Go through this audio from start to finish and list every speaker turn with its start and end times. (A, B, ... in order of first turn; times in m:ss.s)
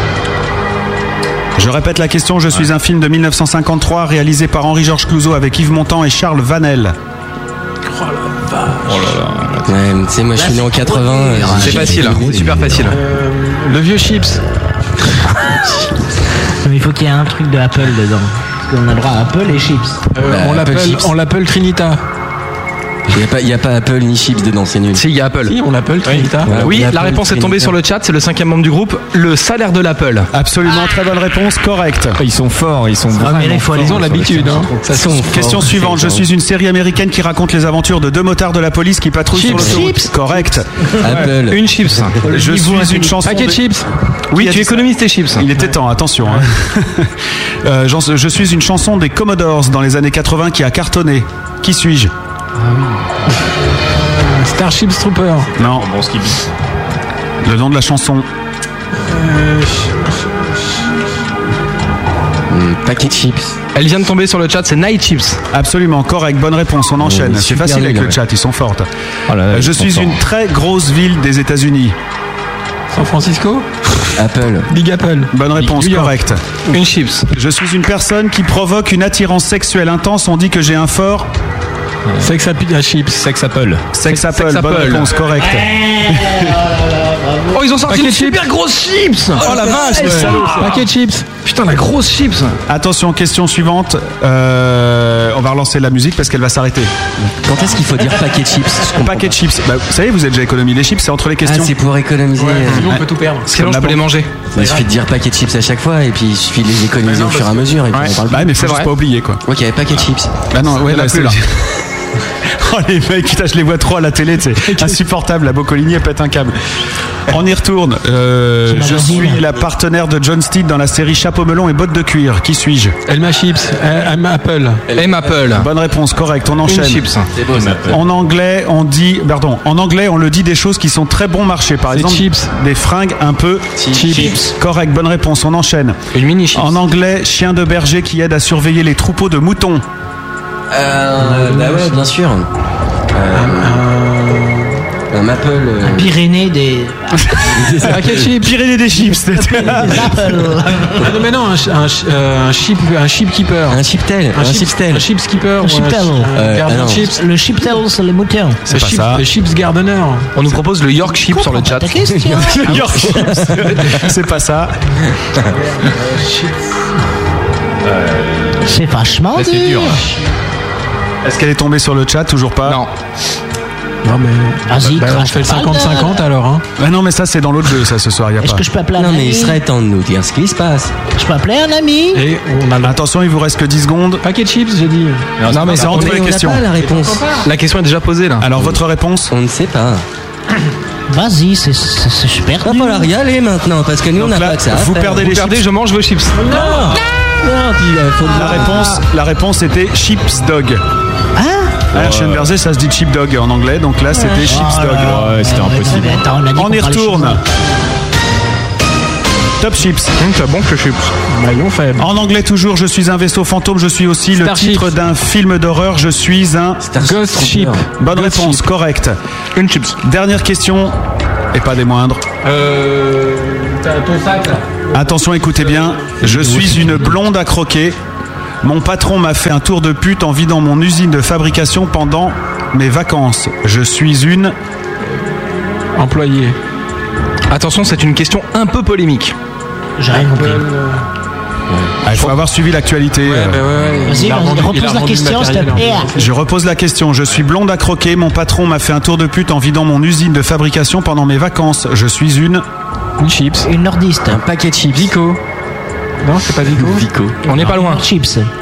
0:01.6-0:07.0 A
0:07.9-0:09.2 B
0:08.8-0:09.7 C
0:09.7-0:12.7 D
0:10.4-0:12.6 E
0:11.6-0:13.0 F
0:12.8-0:14.4 B
0:16.6-0:20.0 E
0:20.1-0:22.0 B
0:20.2-0:21.1 D
0:23.1-0:25.0 D
0:24.9-0:25.6 F
0:25.4-0:26.9 B
0:26.0-0:26.5 C
0:26.4-0:27.7 D
0:26.5-0:30.3 F
0:30.3-0:32.2 A
0:32.2-0:34.6 C
0:33.1-0:34.8 E
0:33.7-0:35.6 B
0:34.8-0:36.3 D
0:35.3-0:41.1 A
0:39.3-0:40.1 B
0:39.6-0:40.1 E
0:41.0-0:41.7 D
0:41.4-0:42.3 F
0:42.2-0:43.6 A
0:42.4-0:43.9 B
0:44.3-0:45.5 F
0:44.3-0:44.8 A
0:45.4-0:47.1 A
0:47.6-0:52.1 A
0:52.6-0:52.9 C
0:54.0-0:55.5 B
0:55.6-0:55.9 A
0:55.6-0:56.4 C
0:57.4-0:58.3 A
0:59.0-1:00.8 B
1:02.5-1:03.6 D
1:03.7-1:05.4 F
1:05.5-1:08.9 A
1:07.0-1:08.2 D
1:09.3-1:10.2 C
1:09.5-1:12.0 A
1:12.9-1:13.7 B
1:14.2-1:14.7 D
1:14.7-1:16.1 B
1:15.3-1:16.4 A
1:16.7-1:17.3 F
1:17.3-1:21.3 A
1:22.1-1:22.3 C
1:22.2-1:23.3 B
1:23.2-1:23.8 C
1:23.9-1:26.6 A
1:24.1-1:25.1 F
1:25.4-1:27.6 E
1:27.5-1:30.8 F
1:27.9-1:28.5 B
1:29.4-1:31.4 B
1:29.4-1:30.7 A
1:31.4-1:32.6 F
1:32.7-1:36.9 A
1:37.4-1:39.3 D
1:38.9-1:41.7 A
1:41.4-1:42.9 D
1:42.4-1:43.5 B
1:42.9-1:44.0 A
1:43.5-1:44.3 F
1:44.5-1:48.6 D
1:44.6-1:44.9 B
1:47.0-1:47.8 B
1:47.9-1:49.4 A
1:48.6-1:48.9 F
1:49.4-1:50.3 D
1:50.5-1:51.8 A
1:50.8-1:51.4 F
1:52.4-1:56.6 A
1:54.6-1:55.0 B
1:57.3-2:03.0 A
1:58.7-1:59.4 E
2:03.1-2:04.8 B
2:04.9-2:05.4 D
2:04.9-2:05.7 F
2:05.5-2:07.1 A
2:06.6-2:07.3 F
2:07.3-2:08.0 D
2:07.5-2:08.0 C
2:07.9-2:16.0 A
2:11.9-2:12.5 B
2:13.8-2:14.3 D
2:13.9-2:14.5 B
2:16.1-2:16.8 F
2:16.5-2:19.8 A
2:20.7-2:22.5 D
2:21.2-2:22.0 B
2:23.1-2:23.8 D
2:23.3-2:24.8 B
2:25.1-2:26.1 D
2:25.8-2:27.6 E
2:27.5-2:28.3 D
2:27.8-2:28.6 B
2:28.1-2:30.4 A
2:29.4-2:31.1 E
2:31.0-2:37.2 B
2:33.7-2:35.1 D
2:35.6-2:36.4 E
2:36.3-2:37.1 D
2:36.9-2:38.6 E
2:38.7-2:39.3 A
2:38.7-2:40.3 B
2:40.4-2:42.0 F
2:41.1-2:43.5 E
2:42.1-2:43.4 D
2:42.6-2:44.8 A
2:43.6-2:44.1 B
2:45.5-2:46.7 B
2:47.8-2:48.7 C
2:48.6-2:50.0 E
2:49.3-2:50.0 C
2:51.2-2:52.8 A
2:52.6-2:52.9 F
2:54.0-2:56.6 B
2:54.7-2:56.2 E
2:56.8-2:58.6 A
2:58.4-2:59.6 E
2:58.9-3:00.9 D
3:01.1-3:02.2 E
3:02.1-3:03.0 B
3:02.8-3:04.2 A
3:04.2-3:05.3 B
3:05.4-3:06.1 C
3:05.5-3:06.1 F
3:05.7-3:06.7 A
3:05.8-3:07.4 D
3:06.8-3:07.4 B
3:07.4-3:08.5 F
3:08.4-3:09.3 A
3:08.6-3:10.0 D
3:11.1-3:13.1 E
3:12.6-3:15.3 D
3:14.1-3:15.7 A
3:15.2-3:16.4 F
3:16.5-3:16.9 E
3:16.6-3:16.9 B
3:17.4-3:18.9 D
3:18.2-3:20.8 A
3:18.3-3:19.0 E
3:21.4-3:21.7 E
3:21.9-3:22.5 C
3:21.9-3:25.3 A
3:24.1-3:27.4 E
3:24.9-3:26.1 C
3:26.6-3:27.4 A
3:29.6-3:30.1 A
3:30.2-3:31.1 F
3:31.3-3:32.1 B
3:32.0-3:36.8 A
3:34.3-3:35.0 B
3:36.8-3:37.8 D
3:37.0-3:38.7 B
3:38.0-3:39.2 A
3:39.6-3:40.0 F
3:40.0-3:41.0 A
3:41.5-3:42.2 A
3:42.4-3:47.1 B
3:44.9-3:48.0 A
3:48.6-3:54.6 A
3:55.9-3:56.6 B
3:57.5-3:59.4 F
4:00.0-4:00.7 E
4:00.1-4:01.0 B
4:02.0-4:03.7 A
4:03.2-4:06.3 B
4:04.1-4:06.1 E
4:06.1-4:12.6 A
4:13.2-4:13.7 B
4:13.6-4:14.4 E
4:14.3-4:15.4 D
4:16.2-4:17.1 B
4:16.6-4:17.4 D
4:17.4-4:18.0 F
4:17.5-4:18.5 E